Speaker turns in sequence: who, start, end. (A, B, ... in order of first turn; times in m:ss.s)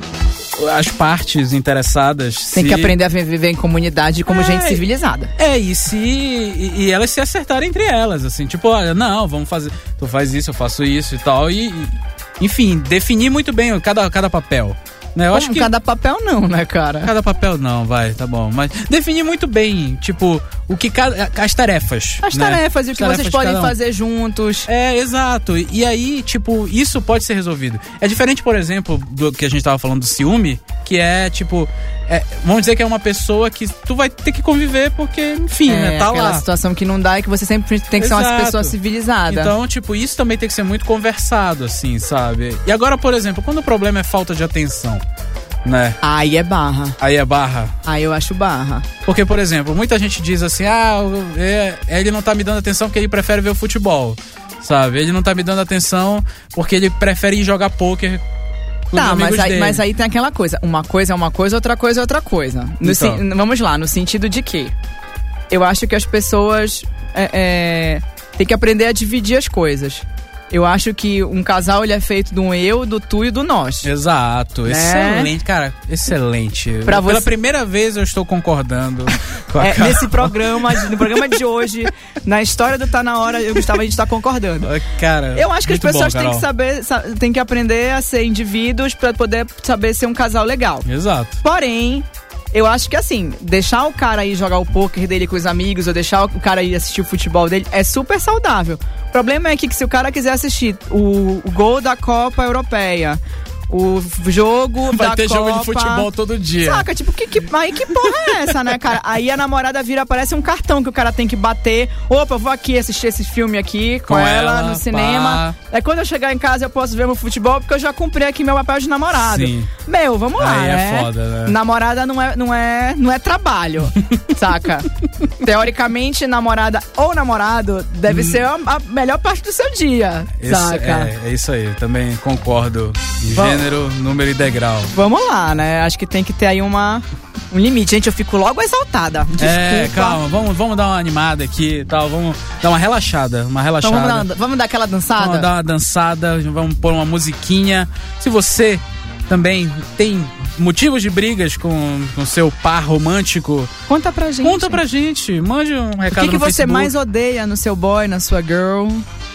0:00.5-0:02.9 A
0:02.5-0:05.3 B
0:04.3-0:04.8 A
0:05.4-0:15.7 A
0:15.3-0:17.1 B
0:17.0-0:23.8 A
0:22.2-0:24.7 B
0:24.6-0:36.4 A
0:35.6-0:39.5 B
0:38.0-0:38.8 A
0:39.3-0:45.0 A
0:45.6-0:46.0 A
0:46.0-0:47.0 B
0:47.0-0:47.8 A
0:47.8-0:48.9 B
0:49.0-0:58.2 A
0:58.9-0:59.8 A
0:58.9-1:04.7 B
1:02.8-1:03.2 A
1:05.5-1:13.9 B
1:13.8-1:21.2 A
1:14.6-1:15.3 B
1:16.8-1:17.3 B
1:19.6-1:24.7 B
1:24.6-1:26.5 A
1:25.3-1:30.9 B
1:30.8-1:31.4 A
1:31.4-1:46.1 B
1:44.9-1:46.9 A
1:46.6-2:11.1 B
1:54.1-1:55.6 A
1:59.1-1:59.7 A
2:00.4-2:01.6 A
2:08.1-2:08.4 A
2:10.4-2:14.9 A
2:13.3-2:13.7 B
2:14.9-2:20.2 B
2:19.4-2:24.3 A
2:23.8-2:25.5 B
2:25.2-2:33.7 A
2:33.9-2:34.8 B
2:34.4-2:36.9 A
2:36.1-2:39.0 B